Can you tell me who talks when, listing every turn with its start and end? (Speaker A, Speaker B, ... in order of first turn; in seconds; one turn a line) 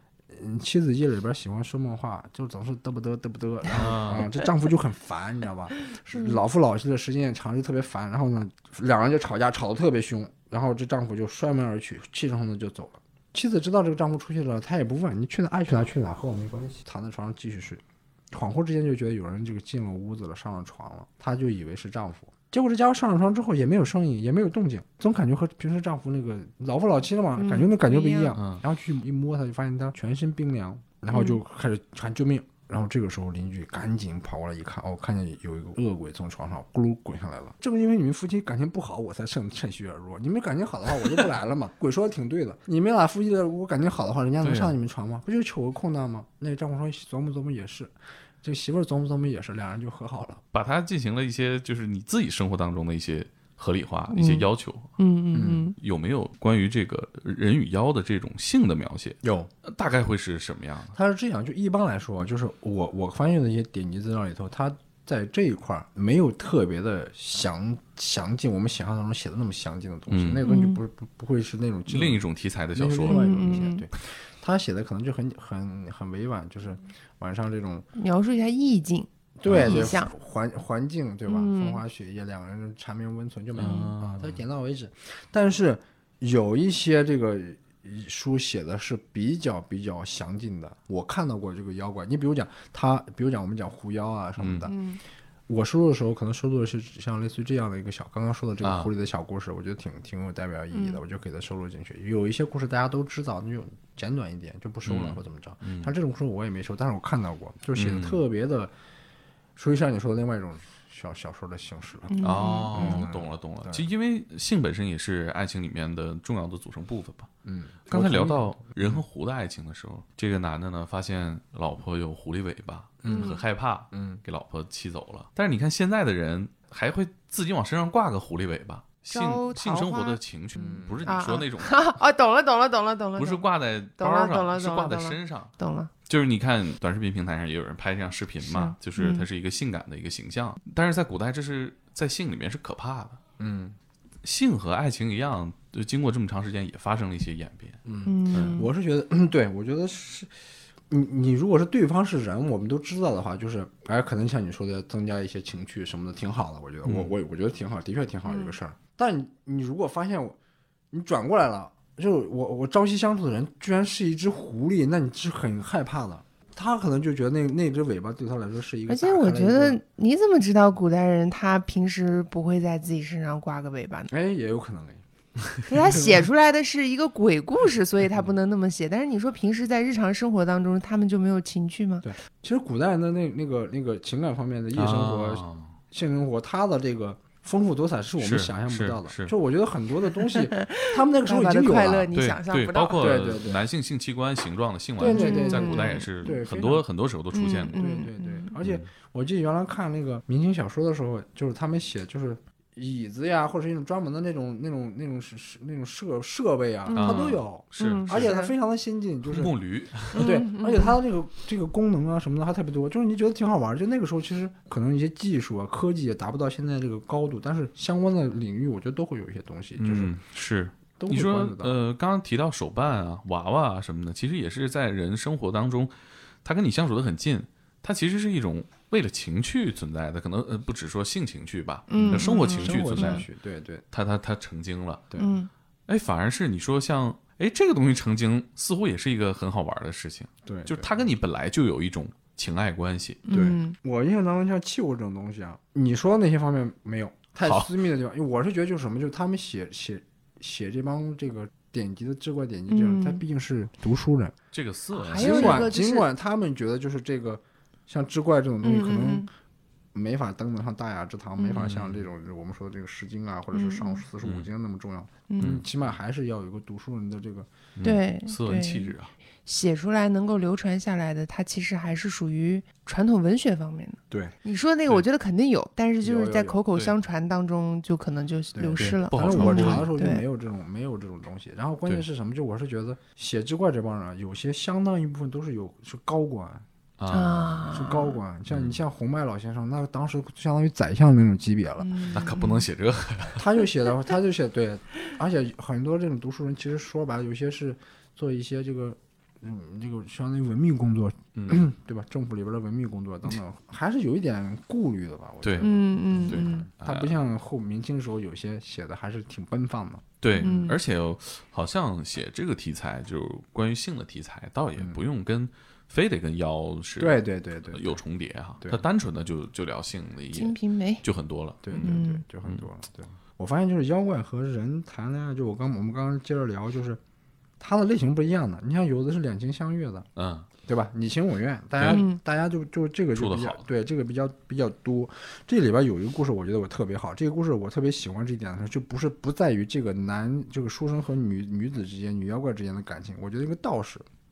Speaker A: 0.3-50.4
Speaker B: 3.7-4.3
Speaker C: 6.1-6.4
Speaker C: 27.4-28.4
Speaker B: 28.4-28.6
Speaker C: 31.1-31.4
Speaker B: 44.4-44.8
Speaker B: 50.5-54.9
Speaker C: 54.1-54.5
Speaker C: 55.0-55.8
Speaker A: 55.3-55.7
Speaker B: 55.8-61.0
Speaker A: 59.2-59.5
Speaker A: 60.9-77.9
Speaker B: 70.1-70.4
Speaker C: 70.4-70.8
Speaker B: 71.9-73.6
Speaker C: 73.1-73.8
Speaker C: 78.0-80.1
Speaker A: 79.4-94.8
Speaker B: 79.5-79.8
Speaker C: 81.3-81.8
Speaker B: 83.6-84.4
Speaker C: 83.6-83.9
Speaker B: 94.4-94.7
Speaker C: 94.7-95.0
Speaker A: 95.5-108.7
Speaker B: 98.6-98.9
Speaker C: 100.7-101.0
Speaker B: 104.8-105.9
Speaker B: 107.8-108.2
Speaker A: 109.6-113.9
Speaker C: 112.1-113.1
Speaker B: 112.2-117.3
Speaker A: 117.4-119.0
Speaker B: 117.9-131.8
Speaker A: 123.0-123.4
Speaker C: 123.1-123.4
Speaker A: 123.9-124.2
Speaker C: 129.1-135.9
Speaker A: 130.6-131.1
Speaker B: 133.2-135.5
Speaker B: 136.1-143.2
Speaker C: 138.4-139.3
Speaker A: 143.4-143.8
Speaker B: 144.2-148.6
Speaker A: 147.8-150.3
Speaker C: 148.0-148.7
Speaker A: 150.9-160.4
Speaker B: 156.8-157.1
Speaker C: 158.3-158.5
Speaker A: 160.9-169.8
Speaker C: 168.9-174.1
Speaker A: 174.1-175.0
Speaker C: 175.7-182.1
Speaker A: 175.8-176.3
Speaker A: 182.0-192.1
Speaker B: 184.8-185.8
Speaker B: 188.2-189.3
Speaker C: 190.2-193.2
Speaker B: 192.1-197.8
Speaker A: 193.0-193.6
Speaker C: 195.0-196.5
Speaker A: 195.0-196.8
Speaker C: 197.3-198.5
Speaker A: 197.7-209.5
Speaker B: 198.6-198.9
Speaker C: 206.9-208.5
Speaker B: 207.0-208.2
Speaker B: 209.3-210.3
Speaker A: 210.1-220.2
Speaker C: 210.1-211.0
Speaker B: 219.8-233.3
Speaker A: 221.0-221.7
Speaker C: 231.9-233.2
Speaker A: 231.9-233.8
Speaker B: 233.9-235.1
Speaker C: 235.2-235.5
Speaker B: 235.9-243.3
Speaker A: 240.4-241.0
Speaker C: 243.3-243.8
Speaker A: 243.3-254.3
Speaker B: 247.4-247.8
Speaker C: 252.7-253.2
Speaker B: 254.5-255.7
Speaker C: 255.0-256.1
Speaker A: 255.1-259.3
Speaker C: 258.6-259.3
Speaker A: 259.9-267.5
Speaker C: 261.4-261.7
Speaker B: 261.6-262.1
Speaker C: 263.5-264.0
Speaker B: 264.2-264.5
Speaker C: 265.3-265.6
Speaker B: 265.4-265.7
Speaker B: 267.8-269.1
Speaker C: 267.8-268.9
Speaker C: 269.5-280.2
Speaker A: 276.0-276.6
Speaker A: 278.6-286.6
Speaker B: 278.8-279.9
Speaker B: 287.0-287.7
Speaker C: 287.1-288.2
Speaker A: 287.7-292.2
Speaker B: 288.5-288.8
Speaker C: 291.8-292.6
Speaker B: 292.1-293.4
Speaker A: 293.4-310.6
Speaker B: 301.4-301.6
Speaker B: 305.4-307.2
Speaker C: 305.6-306.7
Speaker B: 310.2-322.6
Speaker C: 310.4-310.8
Speaker A: 314.8-315.0
Speaker A: 317.0-318.0
Speaker C: 320.3-321.0
Speaker A: 321.6-327.0
Speaker C: 321.8-322.2
Speaker A: 327.6-330.1
Speaker B: 330.2-330.5
Speaker A: 330.6-344.1
Speaker B: 331.8-332.0
Speaker C: 331.9-332.2
Speaker B: 333.2-333.6